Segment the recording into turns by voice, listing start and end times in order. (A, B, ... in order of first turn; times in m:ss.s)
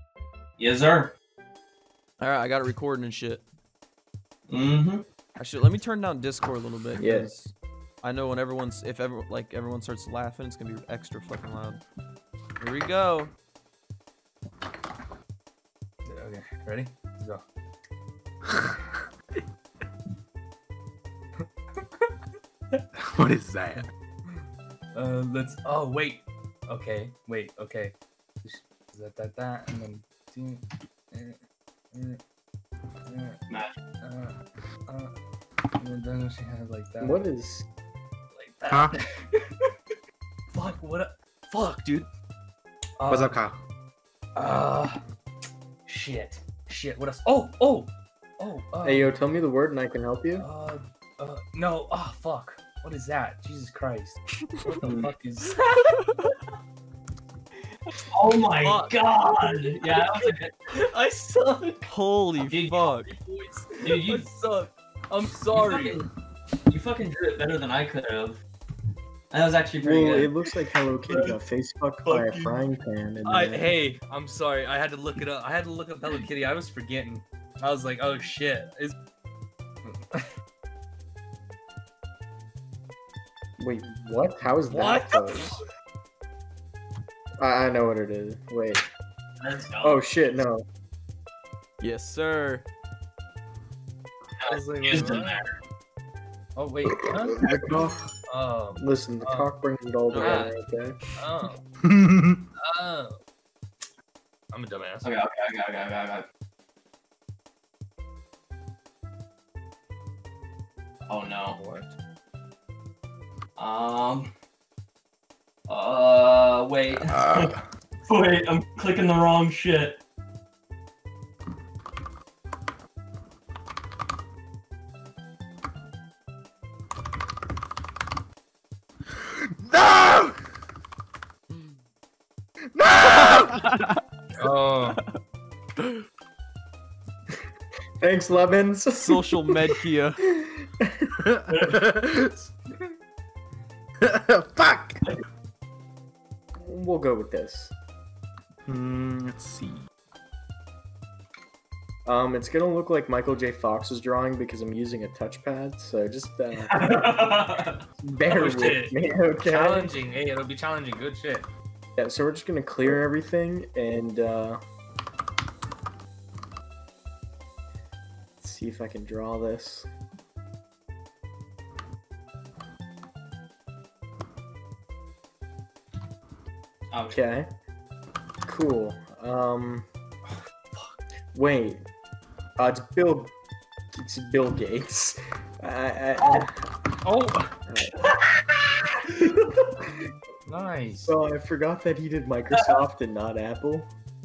0:00.6-0:01.1 A
0:02.2-0:03.4 B
0:04.5-0:05.0 A
0:05.4-0:11.8 B
0:07.0-0:07.3 C
0:12.6-0:13.3 B
0:16.1-0:17.4 D
0:18.5-0:18.7 E
0:21.8-0:22.1 D
0:23.0-0:23.9 E
0:23.8-0:31.4 D
0:31.9-0:32.2 D
0:33.1-0:33.4 D
0:34.0-0:34.4 D
0:34.9-0:35.1 D
0:35.8-0:37.2 D
0:37.0-0:37.7 C
0:38.3-0:39.7 D
0:38.7-0:39.0 E
0:40.5-0:42.1 D
0:43.0-0:43.5 D
0:43.1-0:43.6 E
0:44.4-0:45.0 D
0:45.9-0:49.2 D
0:48.8-0:50.5 C
0:50.4-0:56.1 D
0:54.8-0:55.1 A
0:58.1-1:00.5 A
0:58.5-1:01.9 D
1:01.9-1:03.1 B
1:02.4-1:02.9 A
1:03.0-1:06.1 D
1:03.8-1:04.3 A
1:05.5-1:06.1 A
1:06.7-1:08.4 A
1:09.3-1:10.4 A
1:09.8-1:13.7 C
1:11.1-1:11.3 A
1:12.0-1:12.6 A
1:13.2-1:18.9 D
1:19.8-1:20.3 D
1:23.6-1:25.6 C
1:24.7-1:25.6 D
1:27.4-1:28.8 C
1:29.4-1:30.2 A
1:29.8-1:30.7 C
1:31.8-1:32.6 B
1:34.4-1:35.6 A
1:34.4-1:35.5 D
1:36.6-1:37.5 D
1:37.4-1:38.0 C
1:38.3-1:39.5 D
1:38.8-1:41.0 C
1:40.1-1:40.5 B
1:40.2-1:40.5 D
1:41.2-1:41.6 D
1:41.8-1:42.4 E
1:42.6-1:43.2 D
1:44.5-1:45.1 D
1:45.0-1:46.3 A
1:51.1-1:51.6 A
1:51.3-1:51.9 D
1:53.6-1:54.3 A
1:55.7-1:57.6 A
1:56.9-1:57.6 E
1:58.1-2:00.0 A
2:09.2-2:10.4 E
2:12.8-2:13.6 E
2:13.0-2:13.9 B
2:14.4-2:15.0 D
2:18.0-2:19.3 C
2:19.0-2:20.2 B
2:20.3-2:21.1 C
2:21.2-2:22.5 E
2:24.0-2:25.0 E
2:26.6-2:27.7 C
2:28.7-2:29.8 E
2:32.1-2:37.3 C
2:36.7-2:37.8 A
2:38.0-2:40.0 C
2:38.3-2:41.5 D
2:42.0-2:44.6 C
2:48.4-2:49.9 C
2:56.9-2:57.2 A
2:57.1-2:57.5 C
2:58.5-2:59.9 C
3:00.3-3:00.9 D
3:01.3-3:01.8 C
3:02.6-3:03.3 C
3:03.9-3:06.7 C
3:06.2-3:06.5 A
3:07.0-3:07.5 D
3:07.7-3:08.0 C
3:08.1-3:08.4 A
3:10.5-3:11.1 D
3:11.0-3:13.9 C